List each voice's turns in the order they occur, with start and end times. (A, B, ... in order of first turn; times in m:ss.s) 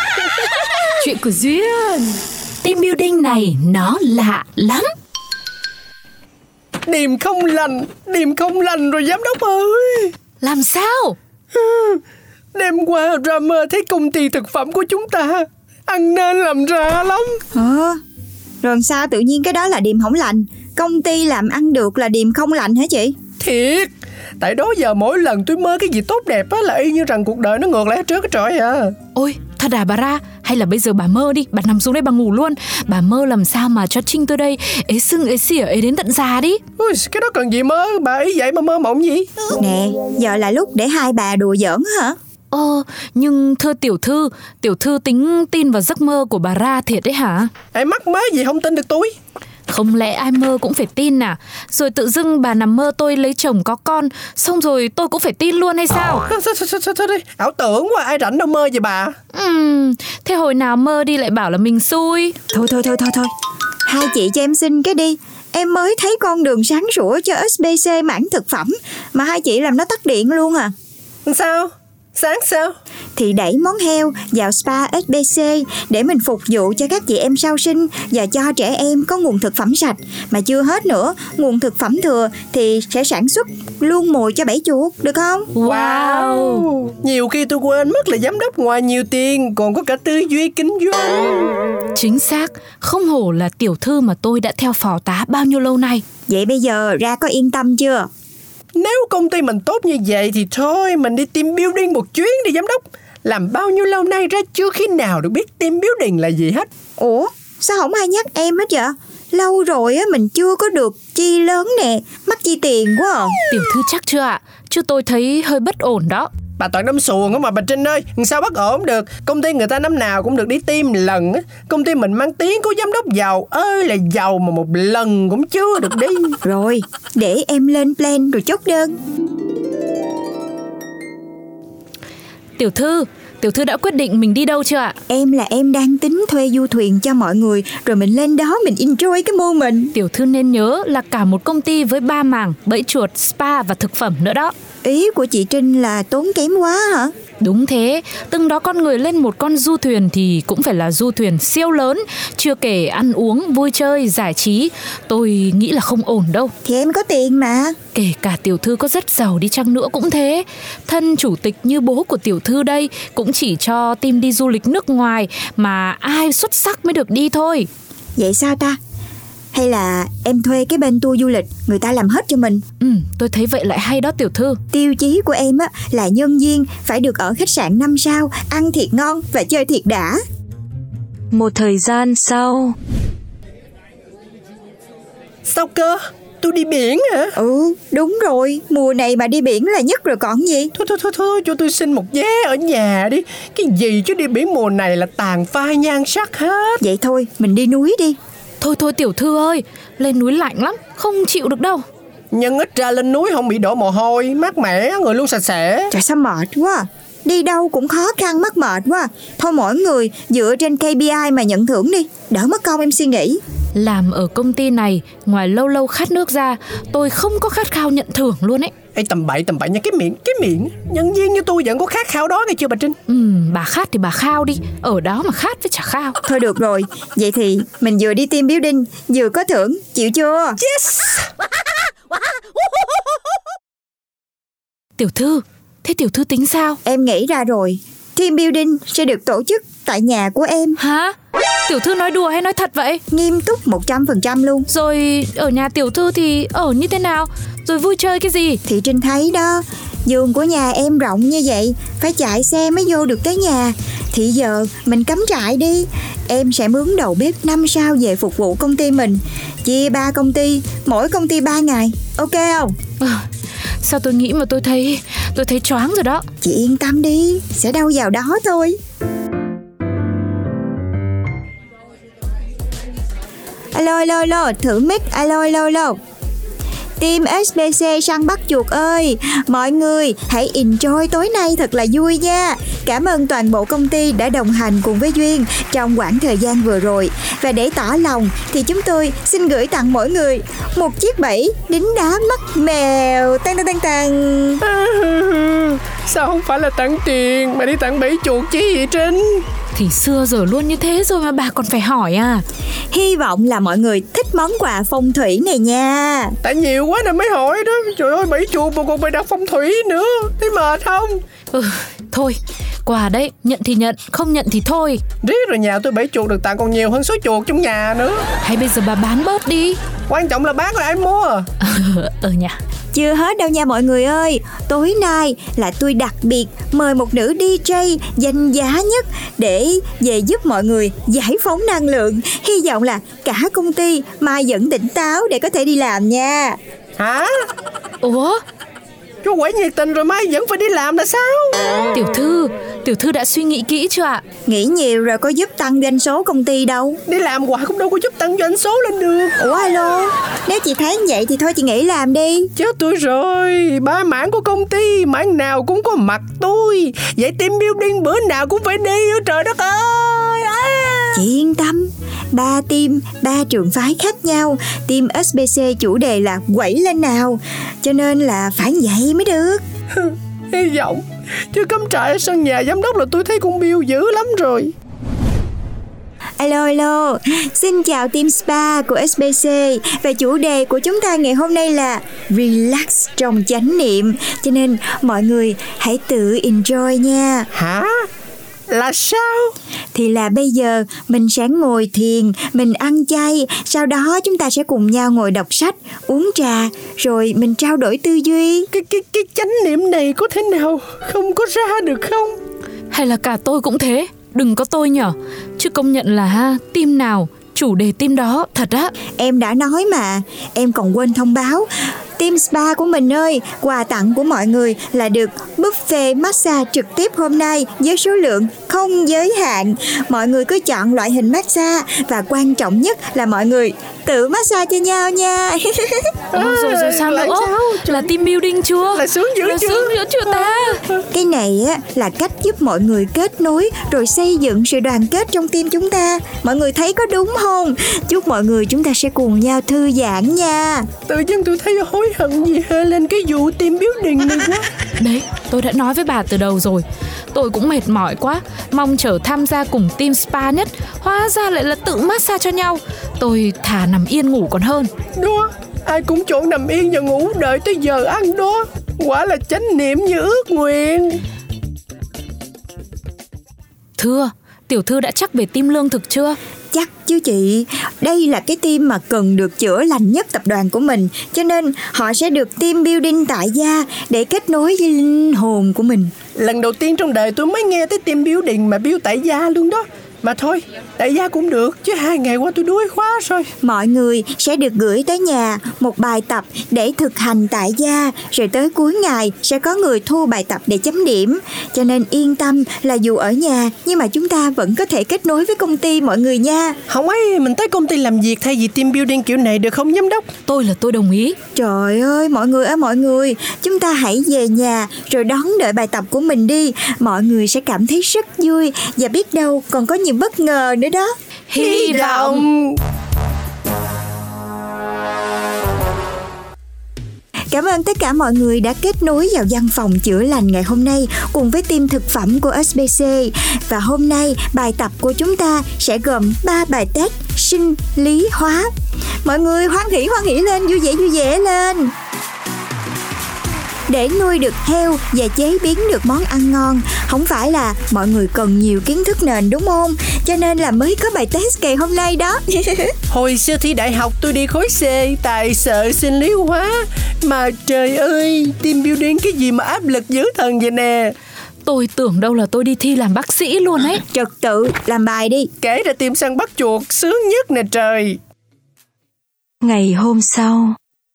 0:01.0-0:02.1 A
0:02.6-0:04.9 A
0:06.8-0:10.1 B
0:10.4-0:11.2 A
0:11.5-0:12.0 B
0:12.5-0:17.4 B
0:17.5-0:18.0 C
0:18.6-0:23.1 C
0:23.4-0:28.9 B
0:29.1-0:36.6 A
0:36.8-0:39.3 B
0:39.6-0:42.2 C
0:42.5-0:47.5 A
0:47.7-0:49.1 B
0:49.7-0:56.2 A
0:56.3-0:59.1 B
0:59.3-1:02.3 A
1:02.5-1:03.3 C
1:03.8-1:10.7 C
1:11.2-1:12.7 B
1:13.2-1:25.5 C
1:25.5-1:26.7 A
1:25.6-1:31.5 B
1:31.9-1:36.0 A
1:36.3-1:38.1 C
1:38.8-1:46.7 B
1:47.0-1:53.4 C
1:53.5-1:56.3 A
1:56.6-2:06.4 B
2:06.4-2:08.9 C
2:12.6-2:15.0 A
2:15.1-2:19.9 C
2:19.9-2:24.5 A
2:24.8-2:27.1 C
2:27.4-2:36.5 A
2:36.6-2:37.8 C
2:37.9-2:47.7 A
2:48.2-2:48.8 C
2:49.5-2:52.6 C
2:52.8-2:54.6 A
2:54.7-3:00.2 C
3:01.3-3:02.7 D
3:05.5-3:07.3 B
3:07.4-3:10.7 C
3:10.7-3:16.8 B
3:16.8-3:18.2 C
3:18.6-3:21.8 A
3:22.3-3:25.9 B
3:25.9-3:33.4 C
3:33.7-3:38.7 A
3:39.0-3:43.0 B
3:43.1-3:46.2 A
3:46.3-3:50.6 C
3:50.6-3:51.3 B
3:55.0-3:56.8 A
3:56.8-4:00.8 C
4:00.8-4:01.2 A
4:01.7-4:03.0 A
4:03.1-4:04.7 C
4:04.7-4:08.6 A
4:08.6-4:22.8 C
4:23.8-4:26.2 A
4:26.4-4:28.8 C
4:33.7-4:36.0 C
4:37.0-4:54.6 C
4:54.6-4:59.4 B
4:59.7-5:02.4 A
5:02.9-5:06.4 C
5:06.4-5:11.2 B
5:11.5-5:15.0 A
5:15.2-5:18.2 B
5:18.4-5:19.8 A
5:20.1-5:21.5 B
5:21.6-5:22.6 A
5:22.9-5:36.6 C
5:37.0-5:37.3 B
5:38.0-5:38.4 A
5:39.2-5:41.6 B
5:41.9-5:44.2 A
5:44.5-5:47.0 C
5:47.1-5:49.4 B
5:49.4-5:52.5 C
5:52.6-6:01.2 B
6:01.1-6:09.6 C
6:10.0-6:11.0 B
6:11.5-6:14.7 B
6:16.4-6:27.5 C
6:27.5-6:28.0 B
6:28.7-6:29.5 B
6:29.9-6:38.7 C
6:38.7-6:42.4 B
6:42.9-6:48.9 A
6:49.2-7:06.1 C
7:06.3-7:08.1 B
7:06.4-7:10.8 A
7:08.9-7:11.0 B
7:11.1-7:20.9 C
7:21.1-7:24.7 B
7:25.0-7:34.9 A
7:35.2-7:41.2 B
7:44.0-7:46.4 A
7:46.7-7:56.1 C
7:56.4-8:03.5 B
8:03.6-8:16.8 C
8:16.9-8:20.2 B
8:20.5-8:21.4 A
8:21.6-8:31.1 C
8:31.5-8:32.4 A
8:31.5-8:32.8 B
8:37.5-8:48.7 C
8:49.2-8:51.9 C
8:53.9-9:02.9 C
9:03.1-9:11.1 B
9:11.6-9:14.0 A
9:14.1-9:15.5 C
9:15.6-9:18.2 B
9:19.6-9:20.7 D